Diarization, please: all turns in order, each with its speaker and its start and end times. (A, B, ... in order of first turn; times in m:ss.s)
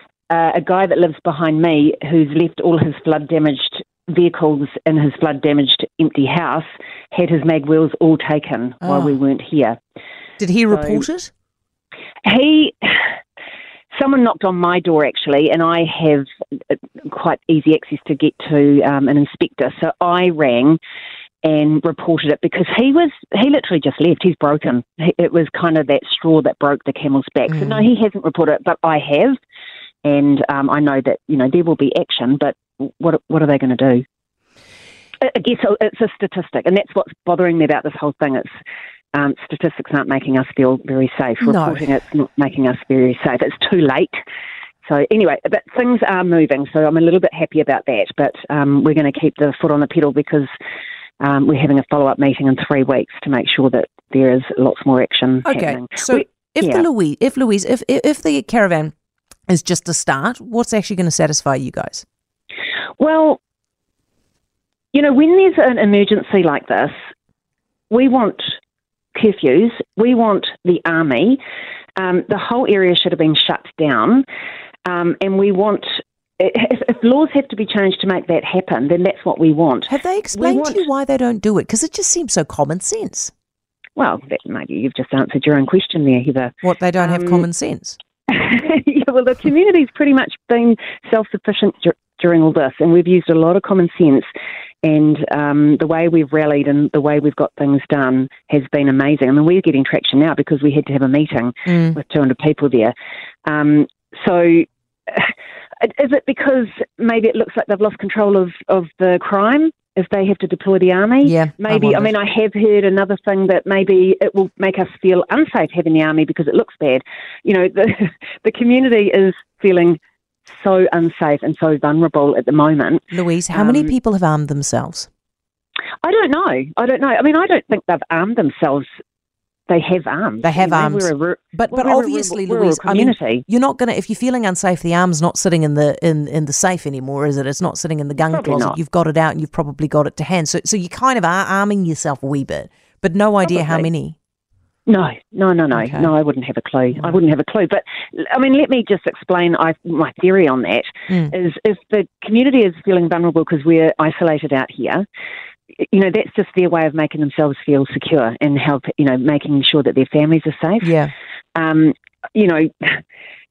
0:00.3-0:09.8 A
0:08.8-0:09.2 B
0:10.4-0:11.3 B
0:10.7-0:11.0 A
0:12.2-0:13.1 A
0:13.9-0:20.8 A
0:21.4-0:29.4 A
0:27.6-0:27.8 B
0:30.0-0:34.0 A
0:35.2-0:38.5 A
0:39.1-0:44.2 A
0:41.4-0:41.9 B
0:44.8-0:50.5 A
0:51.2-0:56.8 A
0:55.4-0:58.9 B
0:59.5-1:02.0 B
1:03.0-1:03.4 A
1:04.9-1:06.9 A
1:07.9-1:08.5 A
1:09.1-1:11.4 A
1:12.0-1:14.2 A
1:14.8-1:20.8 A
1:19.9-1:23.3 B
1:24.0-1:27.4 A
1:26.6-1:28.0 B
1:28.3-1:34.3 A
1:34.8-1:42.9 A
1:41.6-1:42.0 B
1:43.4-2:03.9 A
1:51.2-1:52.1 B
2:03.1-2:05.1 B
2:06.0-2:08.9 A
2:09.7-2:13.4 A
2:10.4-2:24.2 B
2:18.2-2:18.8 A
2:23.4-2:23.9 A
2:24.8-2:35.0 A
2:25.7-2:26.1 B
2:35.8-2:41.0 A
2:40.8-2:41.1 B
2:41.5-2:43.0 A